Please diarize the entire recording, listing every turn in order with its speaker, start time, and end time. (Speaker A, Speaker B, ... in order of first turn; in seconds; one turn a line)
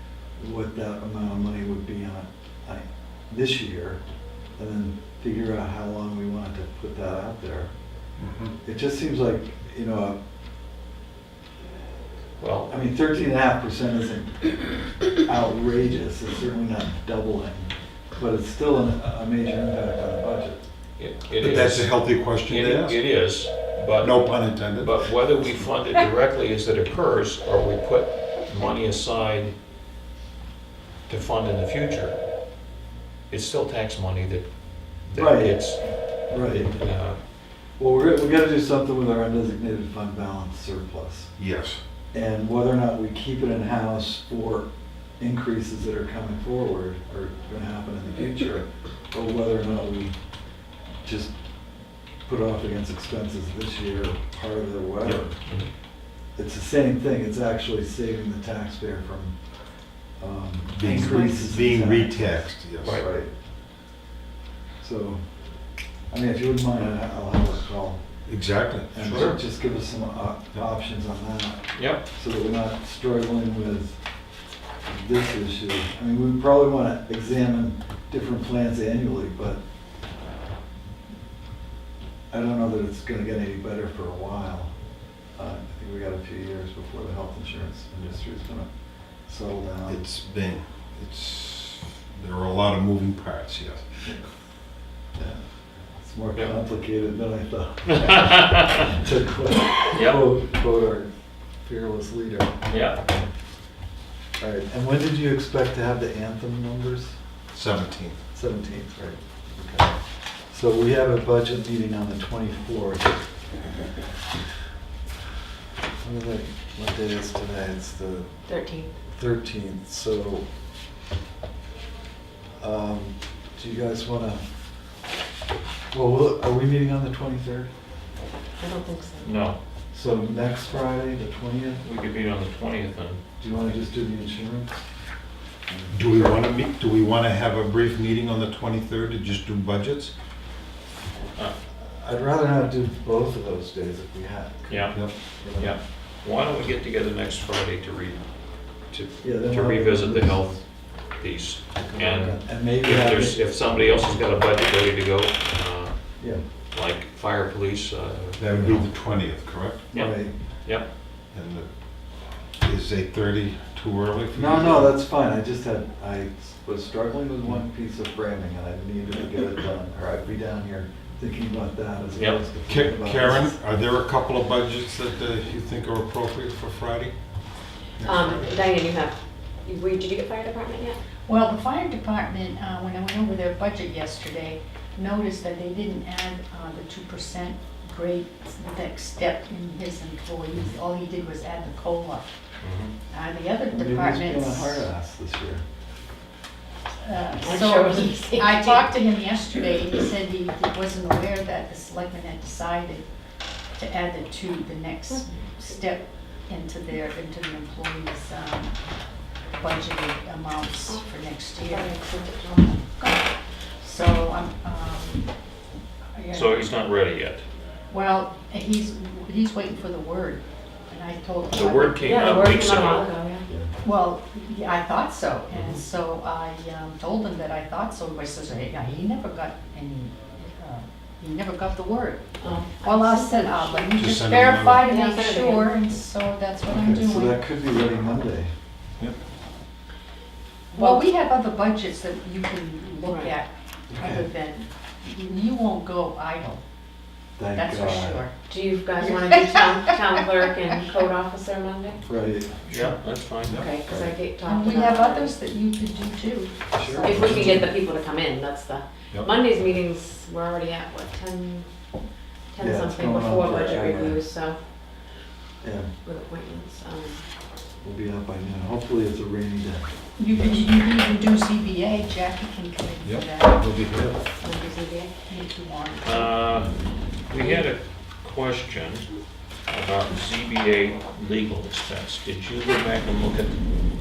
Speaker A: 0.4-4.0
Speaker A: 4.6-7.7
Speaker B: 8.2-8.5
Speaker A: 8.6-10.2
Speaker C: 12.4-12.7
Speaker A: 12.7-14.4
Speaker A: 15.1-20.6
Speaker C: 21.0-29.5
Speaker B: 21.4-23.0
Speaker B: 24.0-25.0
Speaker C: 31.1-32.2
Speaker C: 33.3-34.5
Speaker C: 35.0-35.8
Speaker A: 35.1-35.6
Speaker A: 36.3-36.7
Speaker C: 36.3-37.2
Speaker A: 37.8-41.3
Speaker B: 41.4-41.8
Speaker A: 42.1-44.7
Speaker A: 45.2-50.1
Speaker A: 51.0-51.3
Speaker A: 52.2-55.3
Speaker C: 55.1-55.7
Speaker A: 56.3-59.4
Speaker A: 60.2-63.3
Speaker B: 60.7-63.0
Speaker A: 64.8-65.2
Speaker A: 66.1-68.0
Speaker B: 68.3-69.1
Speaker A: 68.9-74.0
Speaker C: 69.0-69.4
Speaker C: 71.7-72.0
Speaker A: 74.9-79.6
Speaker A: 82.3-84.7
Speaker A: 85.3-88.7
Speaker A: 89.3-90.0
Speaker B: 89.9-94.0
Speaker A: 95.2-95.4
Speaker A: 95.9-101.1
Speaker C: 97.9-98.8
Speaker C: 99.9-100.2
Speaker A: 101.6-102.5
Speaker C: 102.7-103.0
Speaker A: 104.4-107.1
Speaker B: 107.5-108.2
Speaker A: 108.3-110.0
Speaker A: 110.5-113.2
Speaker A: 116.0-118.3
Speaker D: 118.5-118.9
Speaker A: 119.1-120.4
Speaker A: 122.6-124.4
Speaker A: 125.9-127.7
Speaker D: 128.6-129.3
Speaker C: 129.2-129.6
Speaker A: 129.9-131.8
Speaker C: 131.8-133.2
Speaker A: 133.4-134.8
Speaker A: 135.7-136.4
Speaker B: 135.9-140.1
Speaker A: 141.8-145.8
Speaker C: 144.7-148.2
Speaker C: 148.8-158.8
Speaker A: 149.2-150.6
Speaker A: 151.8-153.4
Speaker B: 158.4-159.8
Speaker C: 159.9-160.8
Speaker A: 159.9-160.3
Speaker B: 161.3-161.7
Speaker B: 162.6-165.0
Speaker A: 164.3-173.6
Speaker B: 172.7-177.1
Speaker B: 178.0-178.5
Speaker D: 178.0-181.0
Speaker E: 181.3-192.3
Speaker C: 192.6-192.9
Speaker E: 193.1-194.9
Speaker A: 193.7-195.6
Speaker E: 197.0-203.1
Speaker D: 197.4-198.9
Speaker E: 203.8-208.8
Speaker E: 209.6-212.0
Speaker D: 211.6-212.8
Speaker E: 212.7-213.3
Speaker E: 213.8-215.3
Speaker E: 216.2-216.7
Speaker C: 216.3-217.4
Speaker E: 217.9-222.6
Speaker C: 221.5-223.1
Speaker D: 222.0-223.4
Speaker E: 223.8-237.4
Speaker D: 232.4-234.0
Speaker B: 233.9-234.9
Speaker D: 234.7-235.8
Speaker A: 236.7-238.5
Speaker D: 240.7-241.1
Speaker E: 240.8-246.6
Speaker D: 243.0-243.3
Speaker A: 243.9-244.3
Speaker D: 243.9-244.7
Speaker A: 247.4-248.2
Speaker E: 247.5-248.4
Speaker D: 248.5-252.0
Speaker E: 248.9-250.9
Speaker A: 252.0-252.9
Speaker C: 252.7-253.6
Speaker B: 253.4-253.7
Speaker D: 253.5-255.3
Speaker A: 253.8-254.1
Speaker E: 254.4-257.6
Speaker A: 256.7-257.7
Speaker D: 257.0-261.7
Speaker D: 262.5-264.6
Speaker A: 262.6-264.2
Speaker A: 265.6-265.9
Speaker D: 266.0-267.2
Speaker A: 267.8-269.9
Speaker E: 270.2-273.8
Speaker B: 273.0-274.2
Speaker D: 274.4-275.2
Speaker E: 275.2-276.3
Speaker C: 276.0-279.1
Speaker D: 277.4-277.7
Speaker C: 279.7-283.5